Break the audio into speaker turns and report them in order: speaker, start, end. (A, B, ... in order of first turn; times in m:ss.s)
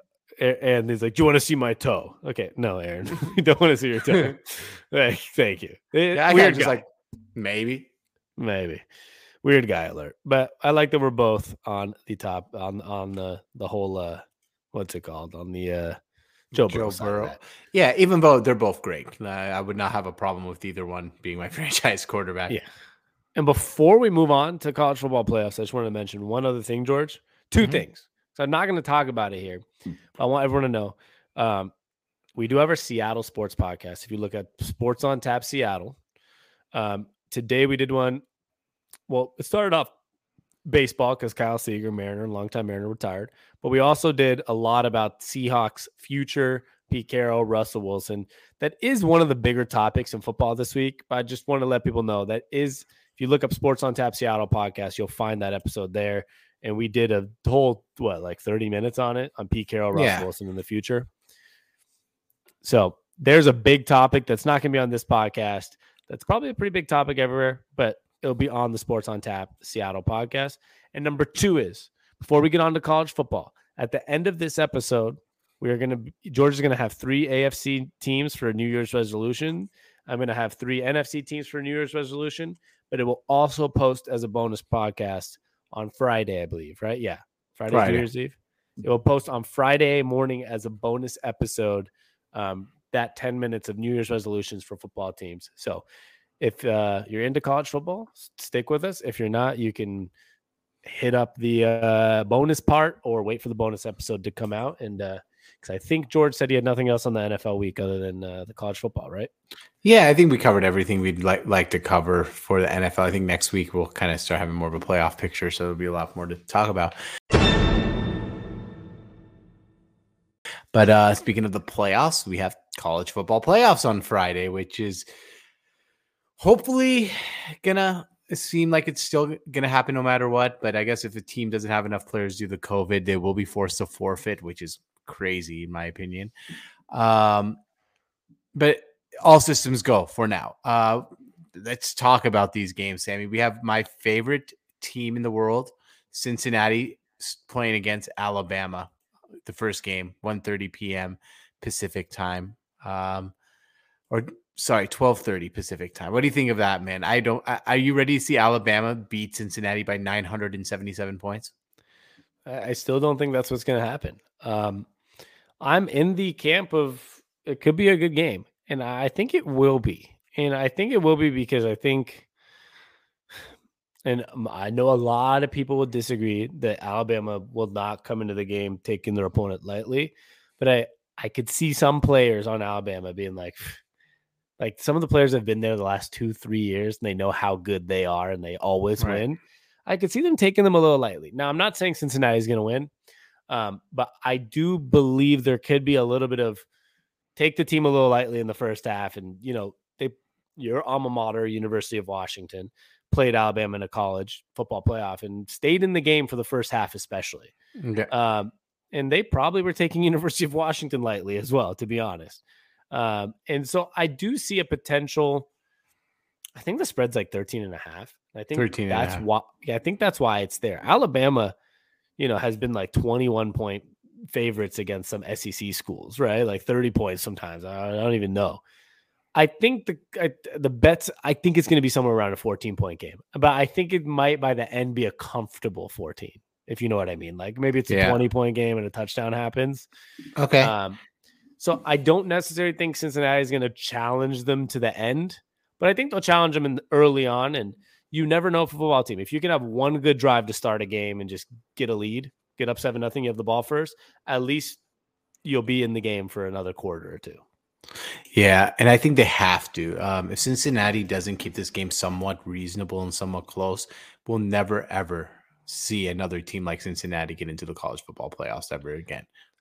0:00.4-0:06.8 A
0:06.1-0:06.8 B
0:07.3-0:07.9 B
0:08.4-0:08.8 A
0:09.4-0:16.0 A
0:16.5-0:17.4 A
0:16.5-0:22.6 B
0:23.3-0:29.6 A
0:30.2-0:31.7 A
0:32.3-0:36.0 A
0:36.7-0:38.2 A
0:39.1-0:39.9 A
0:40.6-1:01.1 A
0:59.9-1:00.3 B
1:02.6-1:35.8 A
1:27.7-1:28.0 B
1:36.4-1:40.1 A
1:40.8-1:49.3 A
1:49.8-1:56.9 B
2:00.7-2:05.0 B
2:06.4-2:16.3 B
2:16.9-2:17.6 B
2:18.5-2:28.9 B
2:29.4-2:33.3 B
2:34.1-2:41.5 B
2:42.4-2:44.9 A
2:45.6-2:52.2 A
2:54.0-3:03.8 A
3:04.6-3:12.9 A
3:13.5-3:16.6 A
3:17.4-3:27.5 A
3:27.8-3:28.1 B
3:28.1-3:35.5 A
3:36.6-3:41.5 A
3:38.5-3:39.2 B
3:42.2-3:48.6 A
3:49.3-3:59.9 A
3:57.9-3:58.2 B
4:00.4-4:00.7 B
4:00.6-4:01.0 A
4:01.6-4:14.8 A
4:15.4-4:17.4 A
4:18.3-4:29.3 B